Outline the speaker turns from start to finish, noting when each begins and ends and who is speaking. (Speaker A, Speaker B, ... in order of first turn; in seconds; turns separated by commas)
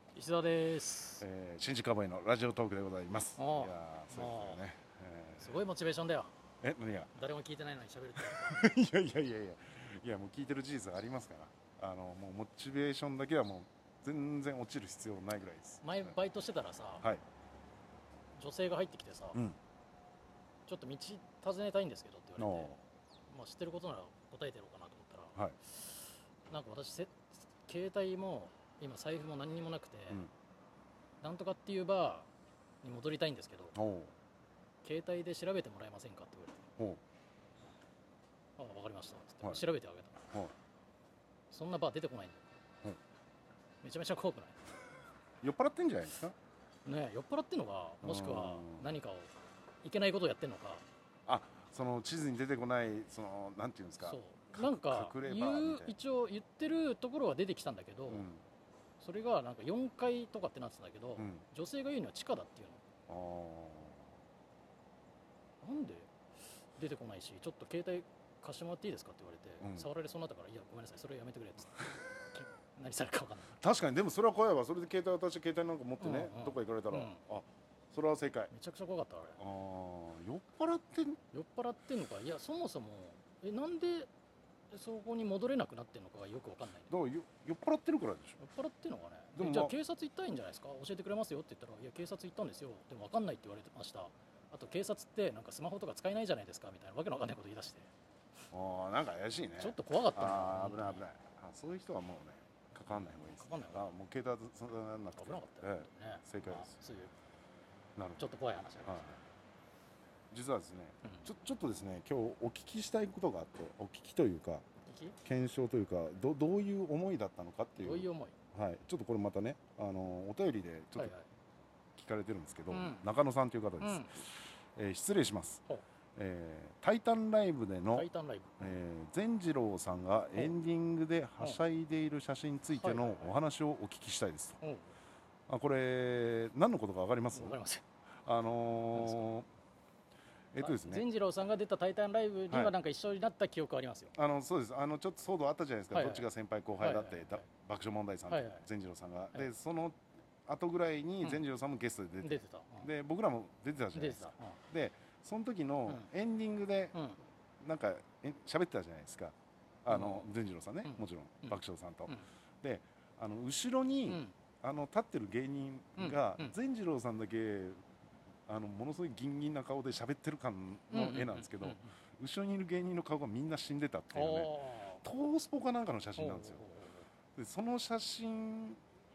Speaker A: 0.1-1.2, Speaker B: 1.2-5.6, Speaker A: 3.4-4.6, Speaker A: 5.4-6.3, Speaker B: 6.6-7.1, Speaker A: 7.2-8.6, Speaker B: 8.2-15.9, Speaker A: 15.8-17.1, Speaker A: 18.4-19.4, Speaker A: 20.7-22.7, Speaker B: 22.4-22.8, Speaker A: 23.3-30.2, Speaker A: 31.2-32.3, Speaker A: 32.8-33.8, Speaker B: 33.8-34.1, Speaker A: 34.8-36.6, Speaker A: 38.6-40.2, Speaker A: 41.5-42.4, Speaker A: 43.8-44.6, Speaker B: 45.4-46.4, Speaker A: 46.9-49.3, Speaker B: 48.0-48.9, Speaker A: 49.8-50.8, Speaker B: 51.3-56.0, Speaker A: 54.0-58.3, Speaker B: 58.1-58.4, Speaker A: 59.0-62.8, Speaker B: 61.2-61.5, Speaker B: 63.1-64.0, Speaker A: 65.6-66.1, Speaker A: 66.8-73.6, Speaker B: 69.6-69.9, Speaker B: 73.6-78.5, Speaker A: 76.0-77.2, Speaker A: 78.5-79.4, Speaker B: 79.4-81.2, Speaker A: 81.3-84.1, Speaker A: 84.7-86.9, Speaker B: 86.9-88.4, Speaker A: 88.4-97.9, Speaker B: 89.4-89.8, Speaker B: 98.5-106.8, Speaker A: 99.6-101.0, Speaker A: 102.9-103.8, Speaker A: 105.2-107.1, Speaker B: 108.0-108.2, Speaker A: 108.2-109.2, Speaker B: 108.9-109.2, Speaker B: 110.3-114.7, Speaker A: 114.9-115.2, Speaker B: 115.2-121.1, Speaker A: 117.8-118.3, Speaker A: 121.0-121.3, Speaker B: 122.0-125.6, Speaker A: 122.7-123.1, Speaker A: 123.8-124.2, Speaker B: 126.2-128.1, Speaker A: 127.9-128.7, Speaker B: 128.6-134.6, Speaker A: 132.7-133.4, Speaker A: 134.6-134.9, Speaker B: 135.5-137.6, Speaker A: 137.3-137.8, Speaker B: 138.3-139.5, Speaker A: 138.9-139.3, Speaker B: 140.5-141.1, Speaker A: 140.6-144.1, Speaker B: 142.5-142.8, Speaker B: 144.2-157.0, Speaker A: 145.9-146.3, Speaker A: 146.8-147.4, Speaker A: 148.3-148.7, Speaker A: 152.2-152.9, Speaker A: 153.9-154.6, Speaker B: 157.6-167.8, Speaker A: 159.9-160.3, Speaker A: 160.8-161.6, Speaker A: 164.1-164.3, Speaker A: 166.0-166.6, Speaker B: 168.5-176.7, Speaker A: 170.9-171.9, Speaker A: 174.1-175.0, Speaker A: 176.2-177.1, Speaker B: 177.3-178.8